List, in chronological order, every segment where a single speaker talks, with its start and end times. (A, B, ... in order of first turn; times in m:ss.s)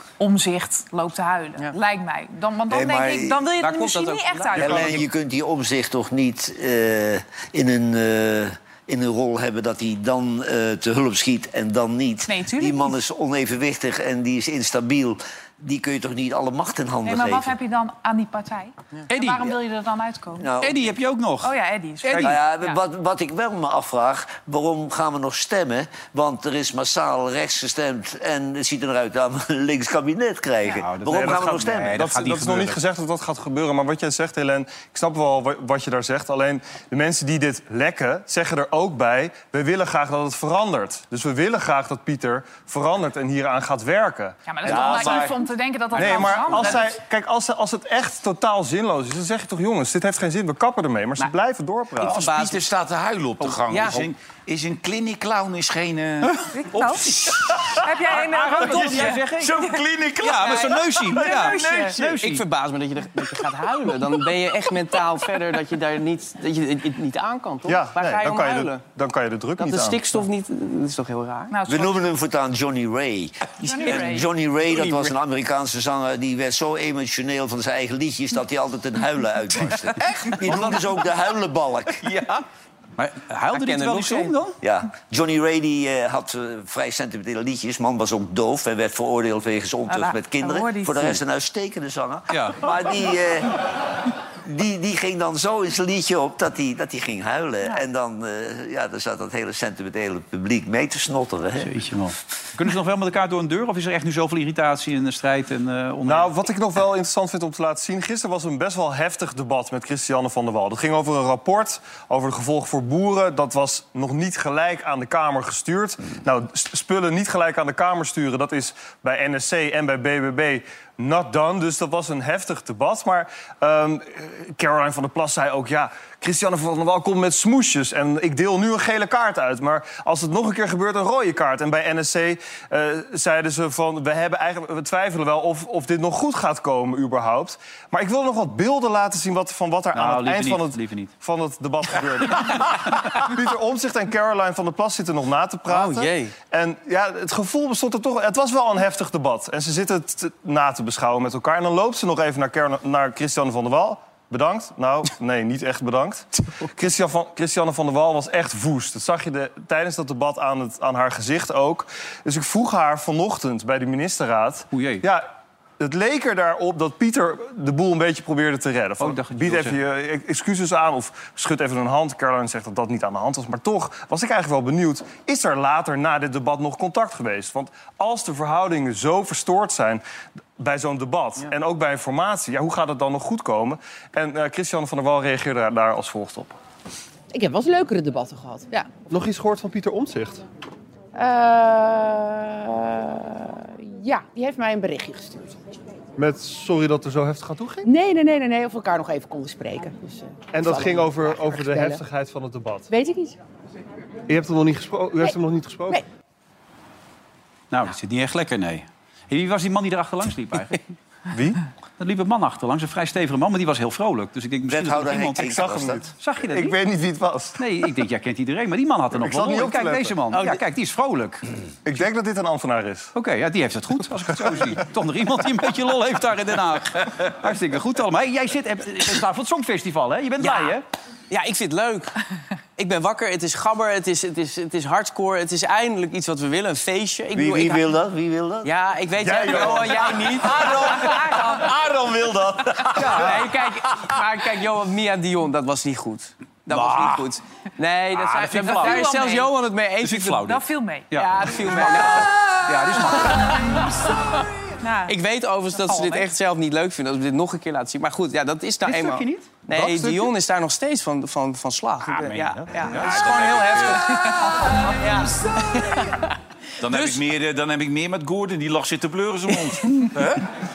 0:00.2-0:05.0 A
0:02.7-0:03.4 B
0:03.6-0:05.0 C
0:04.6-0:17.5 B
0:12.3-0:13.0 A
0:17.0-0:20.5 A
0:19.1-0:19.5 D
0:20.4-0:20.9 B
0:20.6-0:21.5 D
0:21.4-0:22.8 A
0:22.0-0:22.4 D
0:22.1-0:32.0 B
0:30.7-0:32.8 D
0:31.1-0:45.3 E
0:44.5-0:46.9 A
0:44.6-0:45.4 B
0:46.0-0:52.2 E
0:52.0-0:52.6 C
0:52.0-0:57.8 F
0:53.4-0:54.1 C
0:56.5-0:57.1 A
0:57.7-0:59.8 A
0:58.1-0:59.5 D
0:58.7-1:00.9 F
1:00.2-1:02.4 D
1:01.1-1:08.8 C
1:01.2-1:01.9 A
1:07.6-1:10.1 E
1:09.6-1:11.5 C
1:11.5-1:12.0 A
1:11.7-1:22.0 B
1:13.6-1:14.1 C
1:13.6-1:14.2 A
1:14.7-1:15.1 C
1:22.0-1:22.4 D
1:23.0-1:24.6 D
1:23.5-1:24.3 C
1:24.6-1:33.6 B
1:29.9-1:31.2 A
1:32.3-1:32.7 D
1:34.4-1:41.8 B
1:41.6-1:46.3 D
1:46.0-2:45.3 E
2:19.9-2:21.1 D
2:25.7-2:26.3 C
2:44.7-2:45.0 D
2:45.8-3:00.0 E
2:49.0-2:49.8 D
3:00.6-3:06.6 E
3:07.3-3:08.9 G
3:09.1-3:10.4 E
3:11.1-3:15.8 G
3:16.2-3:17.8 E
3:17.8-3:22.0 G
3:20.5-3:22.9 E
3:22.9-3:23.4 G
3:24.3-3:26.0 E
3:27.7-3:30.9 D
3:31.3-3:31.6 E
3:32.0-3:36.8 D
3:34.7-3:36.0 B
3:35.4-3:37.6 E
3:37.6-3:41.4 D
3:39.2-3:40.2 E
3:40.3-3:40.6 C
3:41.8-3:43.1 E
3:43.1-3:50.8 D
3:50.4-3:50.7 C
3:51.3-3:52.1 C
3:52.8-3:57.8 C
3:57.3-3:58.7 B
3:58.6-4:01.1 C
3:59.2-4:03.4 E
4:00.8-4:01.6 A
4:02.9-4:10.4 C
4:03.0-4:03.3 D
4:06.7-4:07.2 D
4:08.1-4:09.2 D
4:08.7-4:09.5 A
4:10.0-4:14.0 D
4:10.4-4:11.2 A
4:11.1-4:14.1 C
4:14.8-4:15.2 A
4:15.1-4:27.2 C
4:15.8-4:16.3 A
4:18.8-4:19.6 D
4:19.7-4:20.2 E
4:22.0-4:23.5 D
4:22.8-4:24.0 F
4:24.2-4:24.5 A
4:26.8-4:30.4 F